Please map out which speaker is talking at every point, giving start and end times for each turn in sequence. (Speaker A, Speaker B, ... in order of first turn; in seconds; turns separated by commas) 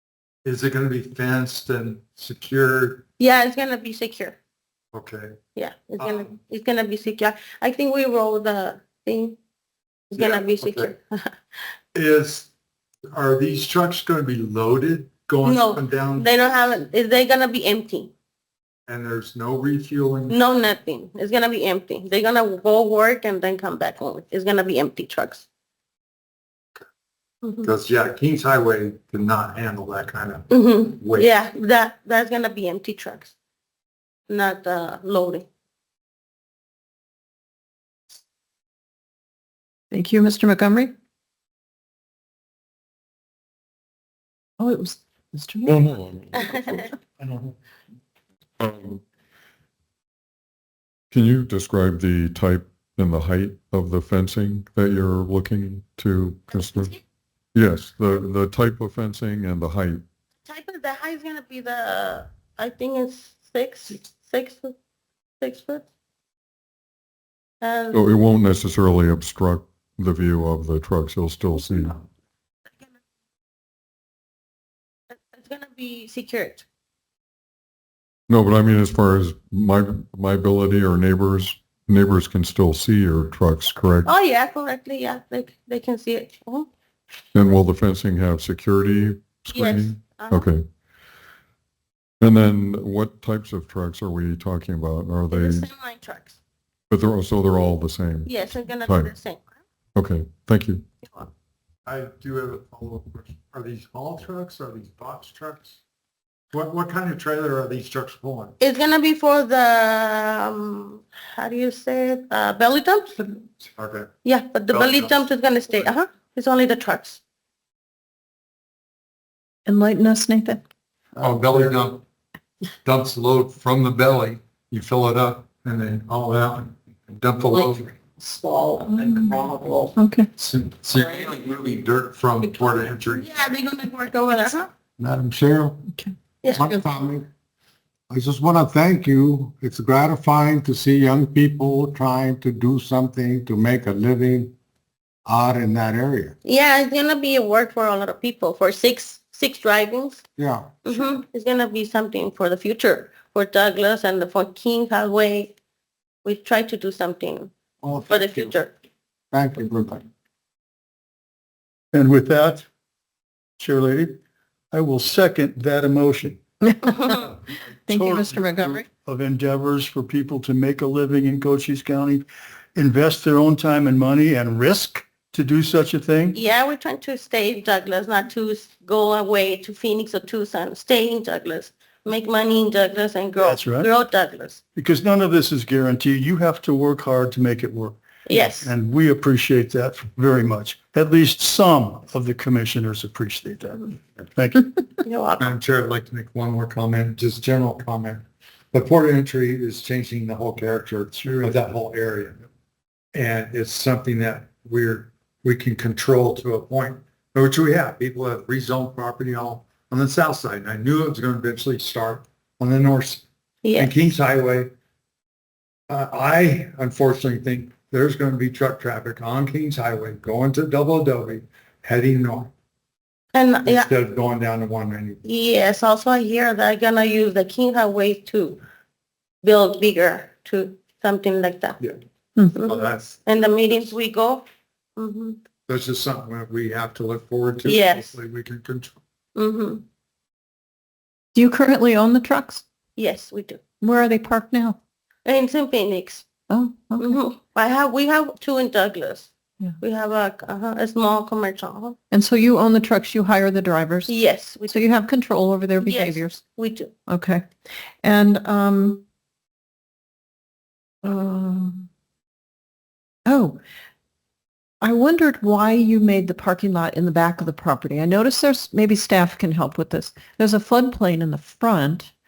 Speaker A: 0.4-3.0, Speaker B: 3.2-4.4, Speaker A: 4.9-5.4, Speaker B: 5.5-9.4, Speaker A: 6.0-6.3, Speaker B: 10.1-11.3, Speaker A: 10.2-10.9, Speaker A: 11.9-12.5, Speaker A: 13.1-16.3, Speaker B: 15.4-18.1, Speaker A: 18.9-20.4, Speaker B: 20.3-25.4, Speaker B: 27.4-27.7, Speaker A: 27.6-31.3, Speaker B: 30.5-33.3, Speaker B: 34.3-35.5, Speaker C: 39.9-40.9, Speaker C: 44.6-45.8, Speaker D: 45.6-46.9, Speaker B: 46.3-46.9, Speaker D: 48.6-49.0, Speaker D: 51.1-56.9, Speaker D: 57.5-60.0, Speaker B: 60.4-64.7, Speaker B: 65.4-65.8, Speaker B: 67.6-68.0, Speaker D: 67.9-72.0, Speaker B: 75.1-76.6, Speaker D: 78.3-84.1, Speaker B: 84.0-86.7, Speaker D: 87.3-90.6, Speaker B: 89.5-90.5, Speaker D: 92.2-95.7, Speaker B: 95.3-96.4, Speaker D: 96.9-99.1, Speaker B: 98.2-99.5, Speaker D: 100.0-100.8, Speaker B: 101.0-101.3, Speaker A: 101.8-105.8, Speaker A: 106.5-108.5, Speaker B: 108.6-113.4, Speaker A: 113.7-114.1, Speaker B: 114.2-117.2, Speaker A: 114.7-115.3, Speaker C: 119.7-120.6, Speaker A: 121.2-122.0, Speaker A: 122.8-128.0, Speaker B: 127.5-128.9, Speaker A: 128.9-133.3, Speaker C: 129.9-130.3, Speaker B: 133.1-134.7, Speaker E: 135.0-135.8, Speaker B: 136.4-136.7, Speaker E: 136.5-137.3, Speaker E: 138.1-144.5, Speaker E: 145.2-146.3, Speaker B: 146.4-150.2, Speaker E: 150.4-150.9, Speaker B: 150.8-155.6, Speaker B: 156.2-157.5, Speaker E: 157.8-158.5, Speaker B: 158.1-158.7, Speaker E: 159.3-160.0, Speaker F: 161.9-162.7, Speaker F: 163.6-164.2, Speaker F: 164.7-166.4, Speaker C: 166.6-167.3, Speaker B: 166.8-167.2, Speaker C: 167.9-168.9, Speaker F: 167.9-176.3, Speaker B: 176.3-184.6, Speaker F: 183.4-183.9, Speaker F: 184.7-194.7, Speaker B: 188.3-188.7, Speaker B: 195.0-195.5, Speaker A: 195.4-202.4, Speaker F: 201.2-201.5, Speaker A: 203.1-213.2, Speaker B: 213.6-214.0, Speaker A: 213.8-214.7, Speaker A: 215.9-222.5, Speaker B: 223.3-223.9, Speaker A: 223.6-225.2, Speaker B: 225.2-228.6, Speaker B: 229.4-231.8, Speaker B: 232.5-234.4, Speaker A: 232.6-233.2, Speaker B: 235.0-235.4, Speaker A: 235.7-239.0, Speaker B: 237.6-238.1, Speaker B: 239.3-239.8, Speaker C: 241.3-242.6, Speaker B: 243.0-243.6, Speaker C: 243.8-244.8, Speaker B: 245.2-246.3, Speaker C: 246.5-247.2, Speaker B: 247.0-251.9, Speaker C: 252.1-256.4, Speaker B: 254.1-254.8, Speaker B: 255.8-256.9, Speaker C: 257.1-257.5, Speaker C: 258.0-259.0, Speaker C: 261.0-261.9, Speaker C: 263.2-263.6, Speaker C: 264.8-272.1